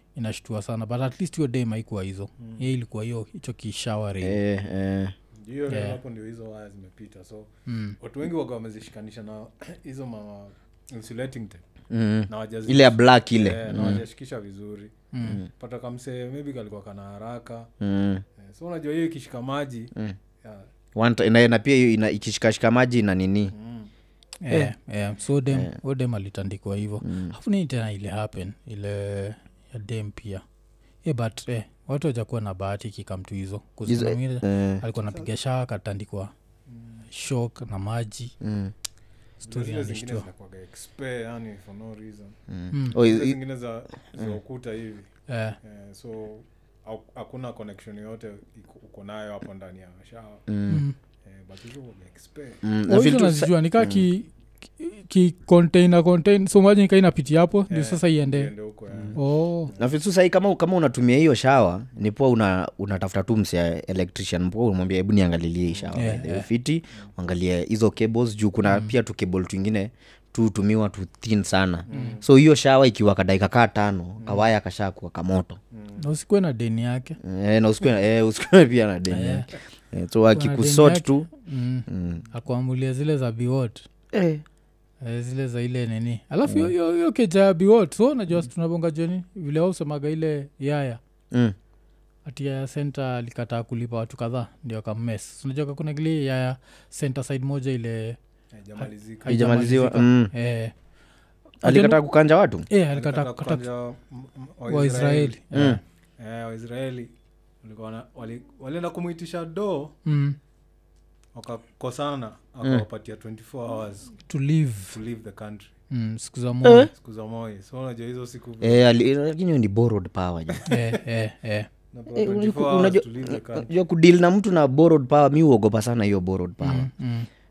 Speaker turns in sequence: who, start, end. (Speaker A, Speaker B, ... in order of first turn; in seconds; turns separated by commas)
Speaker A: 0.1-4.4, Speaker B: 4.2-5.1, Speaker C: 5.4-11.6, Speaker A: 5.7-6.0, Speaker A: 7.7-8.0, Speaker B: 11.9-14.0, Speaker C: 12.3-14.9, Speaker A: 15.1-15.4, Speaker C: 15.5-17.7, Speaker B: 17.8-18.2, Speaker C: 18.4-20.7, Speaker B: 20.9-23.5, Speaker C: 23.5-23.9, Speaker A: 24.4-30.4, Speaker B: 27.0-27.3, Speaker A: 31.0-36.3, Speaker B: 33.9-34.8, Speaker C: 36.7-37.0, Speaker A: 37.1-38.3, Speaker B: 38.4-38.7, Speaker A: 39.4-40.3, Speaker C: 39.4-42.4, Speaker B: 42.5-43.4, Speaker A: 42.7-43.0, Speaker C: 42.9-45.1, Speaker A: 45.3-45.6, Speaker C: 45.6-50.5, Speaker B: 50.5-50.8, Speaker A: 50.7-51.0, Speaker C: 51.2-52.6, Speaker B: 52.6-54.0, Speaker A: 52.9-58.5, Speaker C: 57.7-59.9, Speaker A: 59.1-59.7, Speaker B: 59.7-75.6, Speaker C: 65.7-66.0, Speaker A: 65.9-66.5, Speaker A: 68.6-68.9, Speaker C: 71.9-72.2, Speaker A: 71.9-72.2, Speaker C: 75.7-76.0, Speaker A: 76.0-77.2, Speaker B: 77.2-81.3, Speaker A: 79.1-79.5, Speaker A: 80.3-83.8, Speaker B: 81.9-82.2, Speaker B: 84.1-84.4, Speaker A: 85.0-91.0, Speaker B: 86.5-86.7, Speaker A: 92.2-98.2, Speaker C: 98.5-99.4, Speaker A: 98.8-100.7, Speaker B: 99.2-100.3, Speaker A: 101.6-102.0, Speaker B: 101.6-102.7, Speaker A: 102.7-103.7, Speaker C: 102.9-105.4, Speaker A: 104.7-105.8, Speaker B: 105.5-105.8, Speaker C: 106.2-107.1, Speaker C: 107.6-110.0, Speaker A: 110.0-110.4, Speaker C: 111.3-114.2, Speaker A: 114.3-115.0, Speaker C: 114.9-115.7, Speaker A: 115.9-116.9, Speaker B: 116.6-116.9, Speaker C: 116.9-118.8, Speaker B: 118.6-120.7, Speaker C: 120.5-121.0, Speaker A: 120.7-121.7, Speaker C: 121.9-123.7, Speaker B: 122.1-126.9, Speaker A: 126.6-127.3